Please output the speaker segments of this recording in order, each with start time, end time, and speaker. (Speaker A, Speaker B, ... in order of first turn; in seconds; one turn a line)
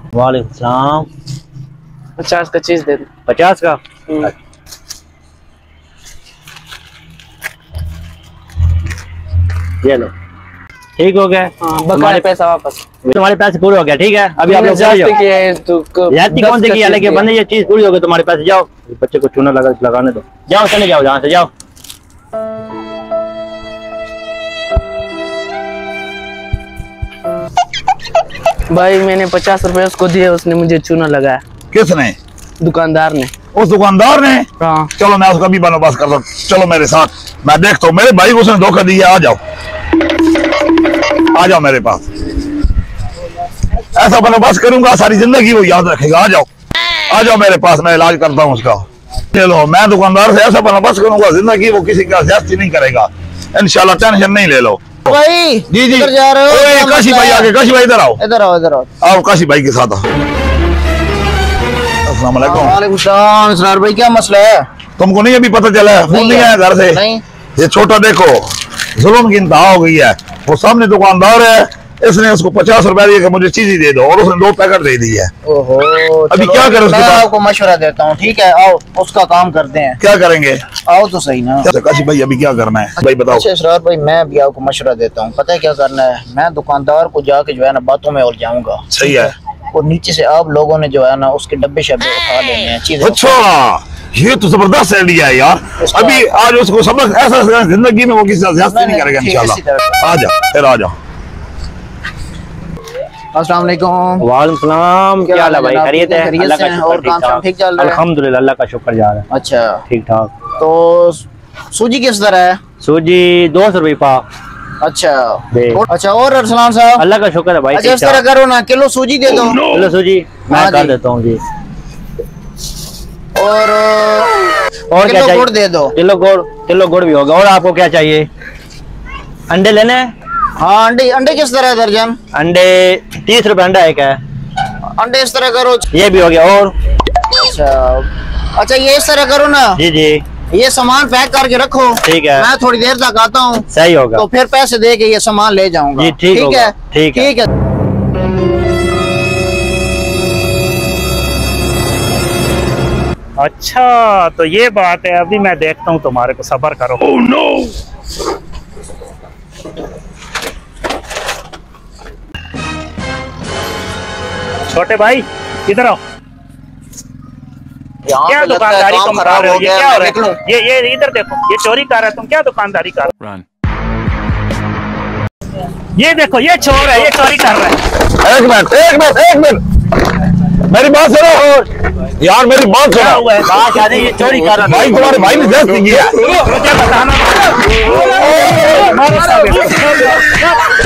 Speaker A: 0.1-1.1
Speaker B: 2.2-3.1
Speaker A: 3.3-4.3
Speaker A: 9.8-10.1
Speaker A: 11.0-12.3
Speaker B: 11.6-12.8
Speaker A: 13.0-15.2
Speaker B: 14.4-17.3
Speaker A: 16.1-21.5
Speaker B: 28.7-31.4
Speaker C: 31.7-32.2
Speaker B: 32.6-33.3
Speaker C: 33.5-39.4
Speaker B: 34.6-34.9
Speaker C: 41.3-42.1
Speaker C: 43.9-46.5
Speaker C: 47.1-55.0
Speaker D: 55.1-57.5
Speaker C: 55.7-58.2
Speaker D: 58.2-58.9
Speaker C: 59.0-60.1
Speaker C: 62.0-62.8
Speaker D: 62.4-64.7
Speaker C: 65.0-67.0
Speaker D: 66.1-67.2
Speaker C: 67.6-75.3
Speaker D: 75.5-80.0
Speaker C: 76.3-77.3
Speaker C: 80.0-80.7
Speaker D: 80.9-81.7
Speaker C: 81.6-83.5
Speaker D: 83.2-93.4
Speaker C: 88.9-89.3
Speaker C: 93.0-101.0
Speaker D: 95.8-96.3
Speaker D: 98.7-99.9
Speaker D: 103.3-104.2
Speaker A: 104.2-109.2
Speaker D: 105.2-108.0
Speaker D: 109.3-109.8
Speaker A: 109.9-110.4
Speaker D: 110.5-112.6
Speaker A: 112.8-114.2
Speaker D: 114.8-117.0
Speaker A: 115.5-115.8
Speaker A: 117.0-118.2
Speaker D: 117.7-119.7
Speaker A: 119.7-121.4
Speaker D: 120.5-121.0
Speaker D: 123.4-124.3
Speaker A: 124.9-128.3
Speaker D: 125.0-126.0
Speaker A: 129.5-130.1
Speaker D: 130.6-132.2
Speaker A: 132.3-134.2
Speaker D: 135.0-135.9
Speaker A: 135.9-136.7
Speaker D: 137.3-139.8
Speaker A: 139.8-140.2
Speaker D: 140.5-147.5
Speaker A: 142.0-142.5
Speaker A: 143.7-144.2
Speaker A: 146.0-147.3
Speaker E: 153.4-157.2
Speaker E: 164.7-166.0
Speaker D: 168.1-170.4
Speaker E: 168.3-173.1
Speaker E: 176.0-177.8
Speaker C: 178.2-179.6
Speaker C: 180.7-181.7
Speaker C: 182.2-183.3
Speaker E: 182.9-183.5
Speaker A: 183.4-185.3
Speaker C: 184.6-186.3
Speaker E: 186.3-190.4
Speaker C: 188.1-188.7